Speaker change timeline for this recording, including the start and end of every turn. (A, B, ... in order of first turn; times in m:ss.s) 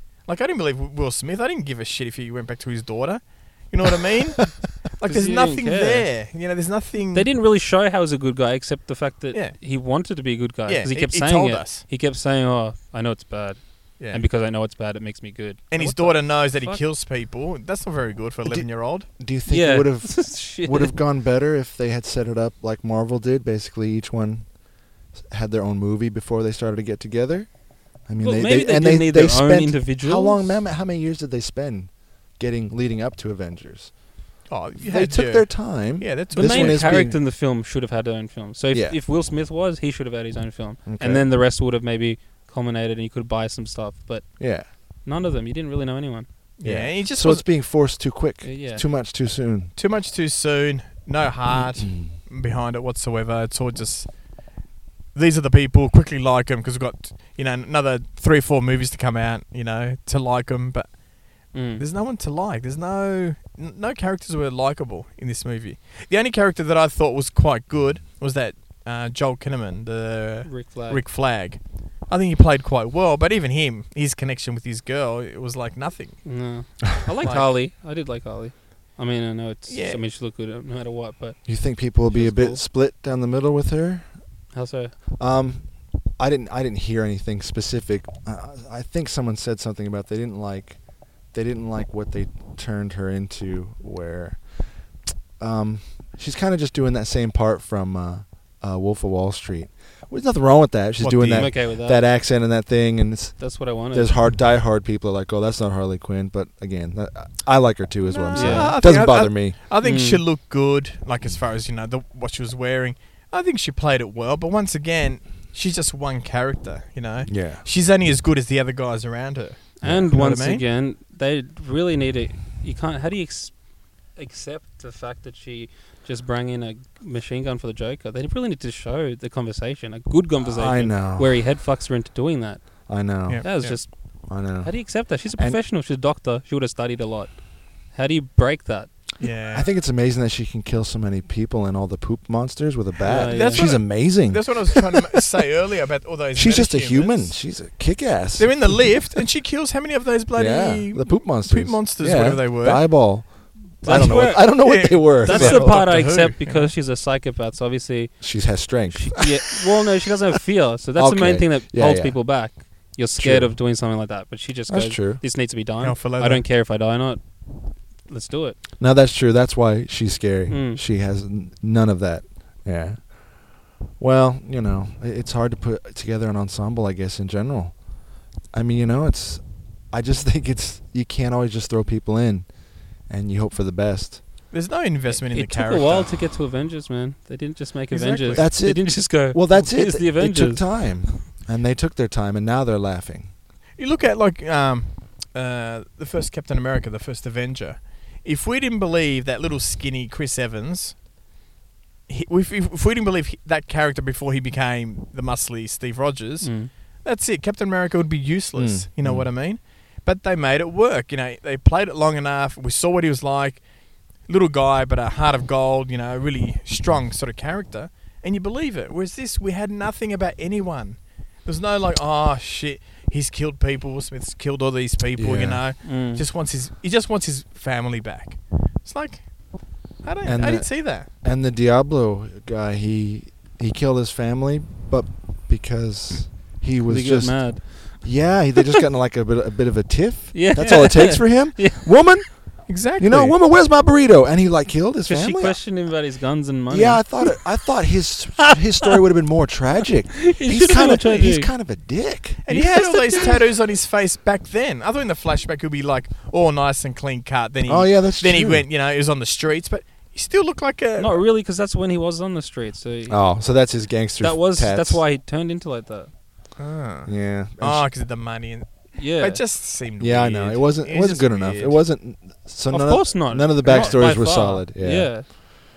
0:00.2-0:07.3 A
0:05.0-0:06.2 B
0:07.1-0:16.8 B
0:09.3-0:09.6 A
0:10.7-0:11.8 A
0:14.0-0:14.2 A
0:15.7-0:19.1 A
0:18.5-0:24.5 C
0:19.5-0:21.0 B
0:25.1-0:34.0 C
0:28.2-0:30.6 B
0:34.5-0:37.1 A
0:34.8-0:37.2 C
0:36.4-0:46.3 B
0:38.7-0:39.0 C
0:40.9-0:41.3 C
0:44.4-0:44.7 C
0:46.6-0:47.5 A
0:46.6-0:49.7 C
0:48.4-0:48.8 B
0:49.8-0:54.4 A
0:51.5-0:52.2 C
0:55.1-1:17.5 A
1:01.5-1:01.8 B
1:10.5-1:11.0 B
1:16.2-1:22.6 B
1:19.7-1:20.0 A
1:21.5-1:24.1 C
1:24.5-1:24.9 B
1:25.2-1:30.8 C
1:31.3-1:34.4 C
1:35.4-1:49.6 C
1:41.0-1:41.5 A
1:41.3-1:42.0 B
1:43.4-1:44.2 B
1:48.0-2:00.6 A
1:48.3-1:48.8 B
1:49.8-1:50.2 B
1:57.3-1:57.6 C
1:59.8-2:03.6 B
1:59.8-2:00.1 C
2:04.1-2:18.9 B
2:10.4-2:11.5 C
2:12.9-2:15.6 C
2:13.3-2:13.9 A
2:19.2-2:19.7 A
2:19.5-2:25.0 C
2:23.0-2:23.7 B
2:23.3-2:27.4 A
2:26.3-2:29.0 C
2:28.4-2:32.9 A
2:30.3-2:35.8 C
2:33.8-2:48.6 B
2:33.9-2:36.7 A
2:38.2-2:39.2 C
2:41.0-2:42.2 C
2:43.2-2:43.6 C
2:44.7-2:45.2 C
2:45.8-2:46.4 A
2:48.8-2:57.9 C
2:50.5-2:50.8 B
2:58.5-3:04.2 C
3:04.5-3:06.2 A
3:05.2-3:11.2 B
3:07.9-3:08.5 A
3:08.3-3:13.3 C
3:13.8-3:21.0 A
3:22.1-3:51.1 A
3:26.4-3:26.7 B
3:28.6-3:29.3 C
3:45.2-3:45.7 C
3:45.8-3:46.2 B
3:50.2-4:05.7 C
3:56.9-3:58.3 B
4:00.3-4:02.0 B
4:02.7-4:03.4 A
4:05.1-4:07.4 B
4:06.7-4:13.4 C
4:10.2-4:11.5 B
4:12.5-4:21.2 A
4:12.5-4:13.4 B
4:17.7-4:18.7 C
4:21.0-4:23.7 B
4:23.1-4:25.0 C
4:24.2-4:26.1 B
4:26.6-4:31.9 A
4:27.1-4:27.9 C
4:29.0-4:29.4 B
4:30.0-4:35.4 C
4:32.7-4:35.3 B
4:33.6-4:34.1 A